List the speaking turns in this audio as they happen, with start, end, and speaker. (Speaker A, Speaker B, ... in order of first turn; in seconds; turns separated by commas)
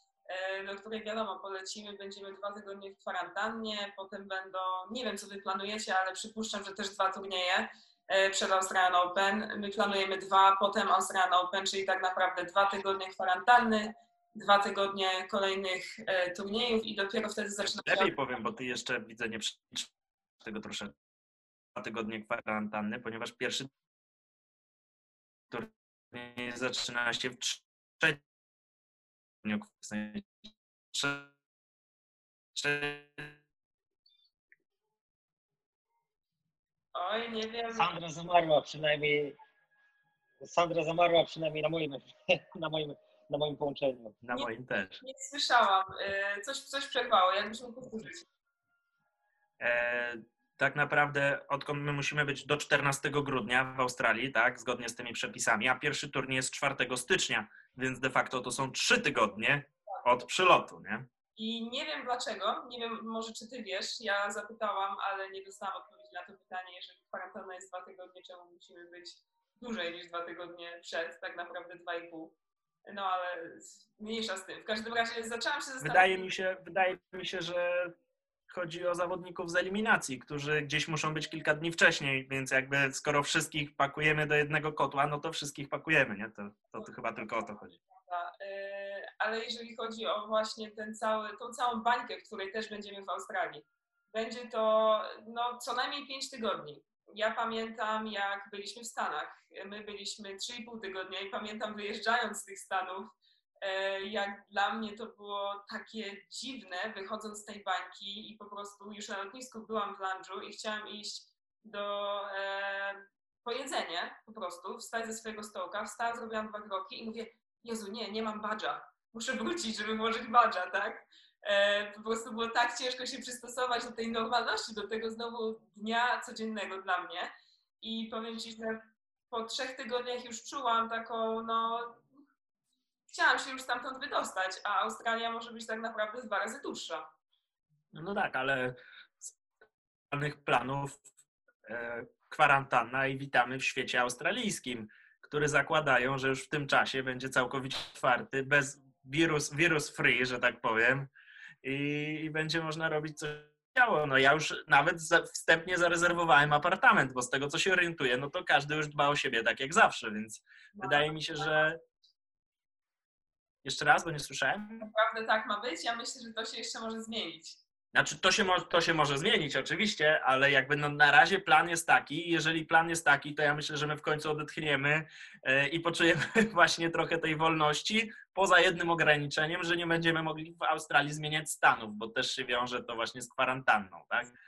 Speaker A: 0.3-18.1, Speaker B: 17.6-19.9, Speaker B: 20.4-20.9, Speaker B: 21.8-23.7, Speaker B: 25.5-28.2, Speaker B: 29.4-30.3, Speaker B: 30.9-31.3, Speaker B: 32.5-33.4, Speaker A: 36.9-37.9, Speaker C: 37.7-39.4, Speaker C: 40.4-44.2, Speaker B: 44.2-45.0, Speaker A: 45.0-48.2, Speaker B: 49.6-61.0, Speaker A: 61.4-72.3, Speaker A: 72.8-76.3, Speaker B: 75.8-77.9, Speaker B: 78.5-87.8, Speaker A: 88.0-127.3, Speaker A: 127.8-132.1, Speaker A: 133.1-137.1, Speaker B: 137.9-139.3, Speaker B: 140.1-141.0, Speaker B: 141.7-151.1, Speaker B: 151.6-161.8, Speaker A: 160.8-161.7, Speaker B: 163.6-164.9, Speaker A: 164.8-167.6, Speaker B: 167.9-184.3